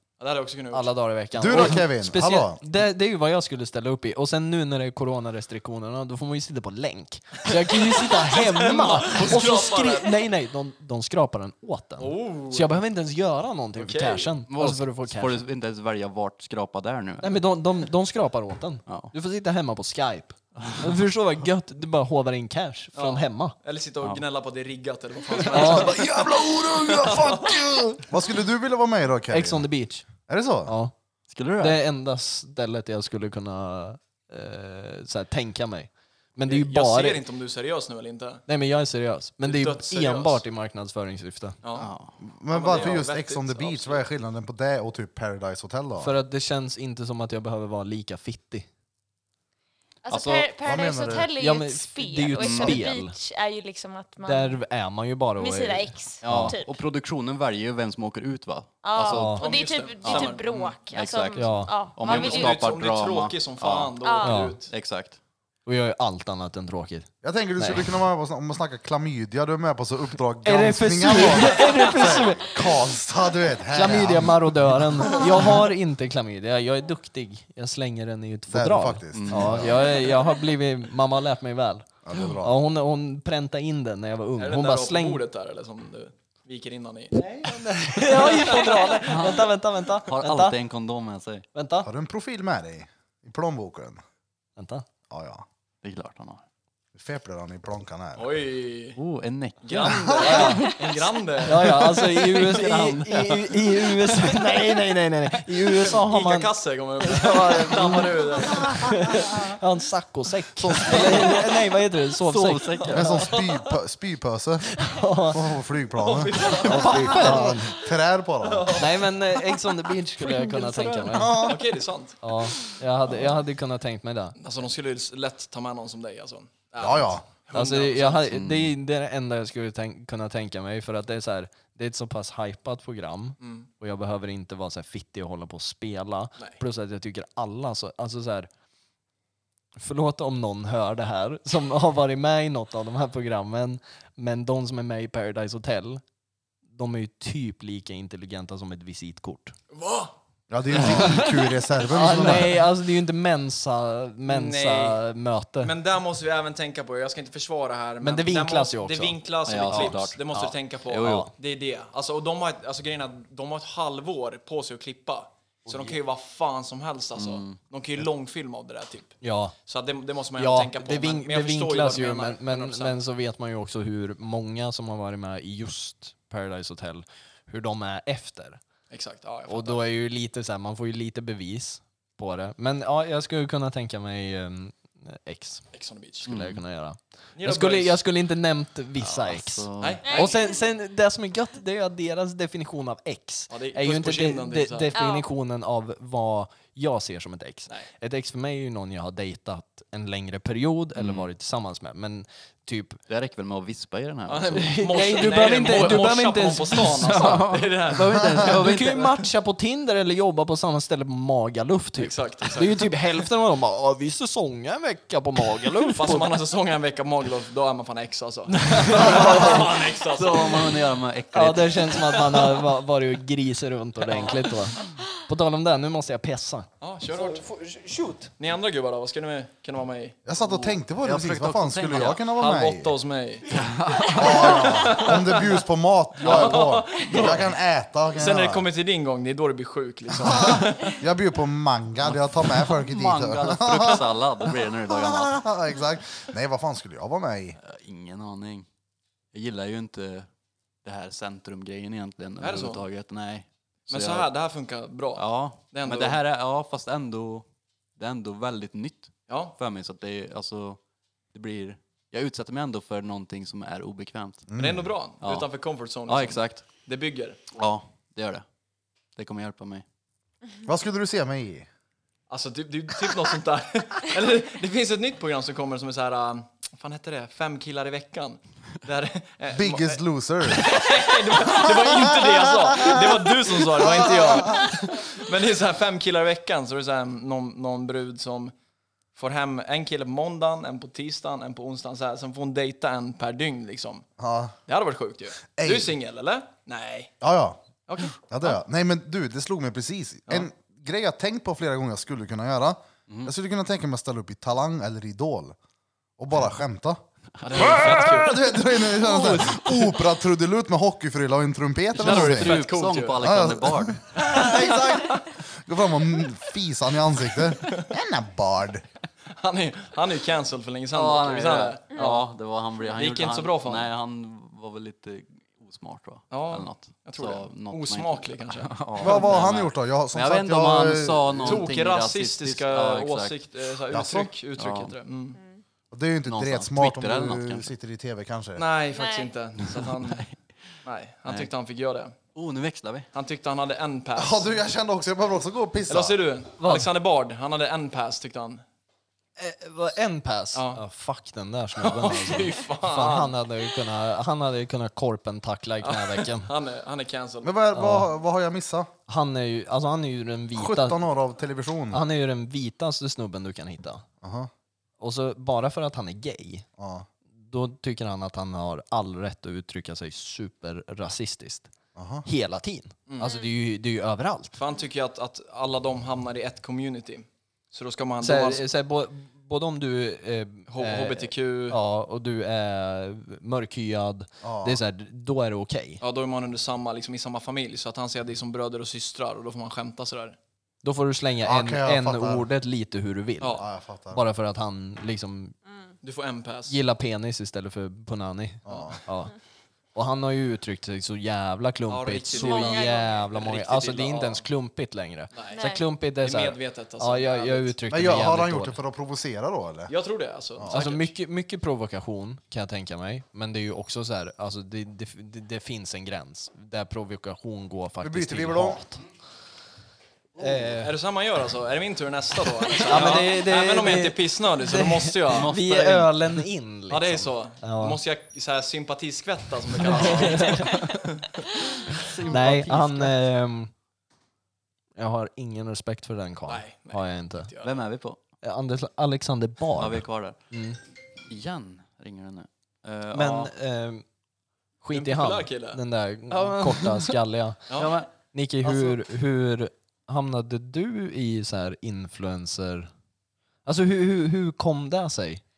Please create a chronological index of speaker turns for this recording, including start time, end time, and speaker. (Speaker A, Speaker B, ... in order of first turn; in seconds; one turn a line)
Speaker A: 0.2-0.9
Speaker B: 0.7-15.4
Speaker C: 1.4-2.6
Speaker A: 7.7-10.2
Speaker A: 12.0-12.7
Speaker A: 13.8-14.3
Speaker D: 14.5-17.4
Speaker B: 17.2-23.6
Speaker D: 18.9-19.1
Speaker D: 20.6-20.9
Speaker A: 22.9-27.6
Speaker B: 25.5-26.1
Speaker C: 25.9-29.7
Speaker B: 27.6-28.0
Speaker B: 29.3-30.1
Speaker C: 30.3-30.7
Speaker B: 30.6-30.9
Speaker D: 31.3-31.8
Speaker B: 31.6-37.2
Speaker A: 36.5-38.5
Speaker B: 38.5-41.6
Speaker A: 39.4-40.4
Speaker A: 41.6-41.9
Speaker D: 41.8-42.2
Speaker C: 42.2-46.1
Speaker A: 42.5-44.1
Speaker D: 42.7-43.0
Speaker B: 46.0-48.7
Speaker E: 50.0-54.6
Speaker D: 50.1-50.5
Speaker C: 50.6-51.3
Speaker B: 51.4-53.2
Speaker D: 52.4-52.8
Speaker B: 54.2-56.5
Speaker E: 55.4-56.8
Speaker D: 56.2-59.5
Speaker E: 58.8-62.6
Speaker B: 59.1-59.5
Speaker A: 59.4-60.8
Speaker D: 60.0-64.0
Speaker B: 61.4-61.8
Speaker A: 62.0-64.7
Speaker E: 64.0-64.5
Speaker B: 64.2-64.6
Speaker D: 64.6-65.2
Speaker B: 65.7-67.9
Speaker C: 67.2-75.2
Speaker B: 70.4-72.8
Speaker B: 73.7-85.2
Speaker C: 78.5-79.8
Speaker D: 79.1-79.8
Speaker C: 82.0-82.5
Speaker A: 84.4-89.1
Speaker B: 87.4-90.6
Speaker D: 89.1-89.5
Speaker D: 90.1-91.5
Speaker B: 91.5-91.9
Speaker C: 91.8-94.0
Speaker B: 94.6-94.9
Speaker C: 95.1-95.5
Speaker D: 95.8-96.4
Speaker C: 97.0-98.2
Speaker A: 98.2-99.0
Speaker D: 99.0-100.0
Speaker A: 99.6-102.4
Speaker C: 99.8-100.4
Speaker B: 100.2-100.8
Speaker E: 100.4-100.8
Speaker B: 101.4-113.2
Speaker D: 102.3-103.6
Speaker A: 105.9-109.2
Speaker D: 110.6-111.5
Speaker A: 110.9-111.3
Speaker D: 112.2-113.3
Speaker A: 112.8-113.7
Speaker C: 112.9-118.9
Speaker B: 114.8-115.5
Speaker A: 116.0-117.6
Speaker B: 116.6-117.8
Speaker A: 118.4-119.1
Speaker B: 118.8-121.5
Speaker D: 120.6-121.0
Speaker C: 121.1-121.7
Speaker A: 121.2-122.4
Speaker B: 122.2-124.4
Speaker A: 124.4-128.3
Speaker C: 126.8-127.2
Speaker B: 127.5-138.5
Speaker D: 128.3-128.7
Speaker A: 133.4-133.7
Speaker B: 139.8-146.0
Speaker B: 146.7-149.6
Speaker A: 149.7-150.1
Speaker C: 150.5-152.6
Speaker B: 150.8-151.3
Speaker B: 151.8-155.7
Speaker A: 154.3-155.0
Speaker A: 155.6-173.0
Speaker B: 158.0-160.0
Speaker D: 159.5-161.3
Speaker B: 161.0-161.3
Speaker D: 165.7-165.9
Speaker D: 167.2-167.6
Speaker B: 169.2-169.6
Speaker B: 170.4-178.6
Speaker A: 178.9-179.8
Speaker B: 179.5-185.7
Speaker A: 185.7-186.3
Speaker D: 186.3-186.6
Speaker B: 186.3-203.0
Speaker A: 187.4-188.0
Speaker D: 189.0-190.2
Speaker A: 189.8-190.3
Speaker E: 190.0-190.5
Speaker A: 193.5-194.9
Speaker E: 194.9-195.3
Speaker D: 201.0-201.3
Speaker D: 203.1-205.3
Speaker A: 204.3-208.4
Speaker B: 204.5-207.4
Speaker D: 207.0-209.3
Speaker B: 208.0-216.3
Speaker A: 212.0-212.9
Speaker A: 216.0-220.8
Speaker B: 218.5-219.7
Speaker D: 218.9-222.3
Speaker B: 221.3-228.3
Speaker A: 224.1-224.5
Speaker A: 226.8-227.5
Speaker A: 228.4-230.2
Speaker C: 230.3-233.0
Speaker D: 230.4-232.2
Speaker A: 232.3-233.5
Speaker D: 233.5-234.9
Speaker A: 234.1-235.6
Speaker C: 234.2-238.6
Speaker A: 236.2-237.5
Speaker A: 238.1-241.0
Speaker C: 240.2-244.1
Speaker D: 242.0-245.5
Speaker C: 244.9-247.6
Speaker D: 247.6-248.7
Speaker D: 249.3-250.3
Speaker D: 250.8-254.3
Speaker A: 252.4-252.8
Speaker A: 253.9-256.2
Speaker D: 255.2-260.8
Speaker A: 259.3-259.6
Speaker D: 261.3-264.5
Speaker C: 264.5-264.9
Speaker A: 264.6-267.4
Speaker D: 265.2-265.5
Speaker D: 266.1-266.7
Speaker D: 267.6-268.4
Speaker D: 269.2-269.9
Speaker C: 270.6-271.7
Speaker A: 272.3-288.5
Speaker C: 279.5-280.8
Speaker C: 281.6-283.1
Speaker C: 283.7-284.6
Speaker A: 289.1-294.1
Speaker C: 294.2-294.6
Speaker A: 294.7-297.1
Speaker C: 295.6-295.9
Speaker C: 297.2-297.6
Speaker A: 297.9-298.6
Speaker C: 298.2-305.6
Speaker C: 306.2-307.0
Speaker A: 307.4-308.4
Speaker C: 307.6-312.6
Speaker A: 309.0-309.4
Speaker A: 312.0-313.3
Speaker D: 312.0-314.0
Speaker C: 313.2-318.8
Speaker A: 314.2-315.2
Speaker A: 317.6-317.9
Speaker A: 319.4-322.3
Speaker D: 320.9-333.4
Speaker A: 322.9-323.9
Speaker A: 326.3-329.5
Speaker C: 329.0-331.6
Speaker A: 331.4-335.4
Speaker C: 333.9-334.3
Speaker D: 334.6-334.9
Speaker E: 335.4-335.6
Speaker C: 335.9-338.6
Speaker D: 336.3-337.7
Speaker A: 338.6-340.3
Speaker E: 338.9-339.3
Speaker D: 339.7-340.3
Speaker A: 340.8-342.1
Speaker D: 342.4-343.1
Speaker A: 343.1-344.6
Speaker C: 344.1-346.1
Speaker A: 345.9-348.6
Speaker B: 346.6-346.9
Speaker B: 349.4-356.5
Speaker A: 350.5-350.8
Speaker A: 351.8-353.4
Speaker A: 355.8-357.6
Speaker C: 357.4-358.9
Speaker B: 357.7-358.1
Speaker B: 359.1-361.0
Speaker C: 360.6-362.0
Speaker B: 361.9-364.1
Speaker C: 364.2-364.5
Speaker B: 365.0-366.7
Speaker C: 366.8-367.1
Speaker B: 367.4-371.7
Speaker C: 371.9-372.3
Speaker B: 372.2-374.6
Speaker A: 373.1-373.3
Speaker E: 373.2-373.5
Speaker A: 374.6-378.6
Speaker B: 378.2-386.0
Speaker A: 380.7-381.8
Speaker C: 384.4-384.8
Speaker A: 386.0-390.4
Speaker B: 390.8-395.6
Speaker C: 391.4-392.5
Speaker C: 393.6-394.2
Speaker A: 396.0-396.8
Speaker B: 396.7-399.3
Speaker C: 398.6-399.0
Speaker B: 399.9-408.8
Speaker A: 401.9-404.5
Speaker E: 402.3-403.2
Speaker A: 405.3-407.7
Speaker E: 405.5-405.9
Speaker C: 407.9-409.9
Speaker A: 409.9-411.1
Speaker B: 410.7-419.0
Speaker C: 418.0-418.8
Speaker B: 420.4-420.9
Speaker A: 420.4-425.5
Speaker B: 422.8-428.0
Speaker D: 422.9-423.2
Speaker D: 425.3-426.1
Speaker A: 426.9-432.3
Speaker B: 429.8-430.8
Speaker D: 429.9-430.9
Speaker D: 431.9-433.1
Speaker B: 432.2-433.7
Speaker B: 435.0-437.5
Speaker A: 436.5-437.8
Speaker D: 437.6-438.2
Speaker B: 438.4-440.8
Speaker D: 439.8-440.4
Speaker D: 441.3-443.5
Speaker B: 443.1-444.1
Speaker B: 444.8-447.6
Speaker A: 444.9-445.8
Speaker D: 446.4-447.1
Speaker A: 447.7-448.0
Speaker D: 447.8-448.1
Speaker B: 448.3-452.9
Speaker B: 453.6-455.4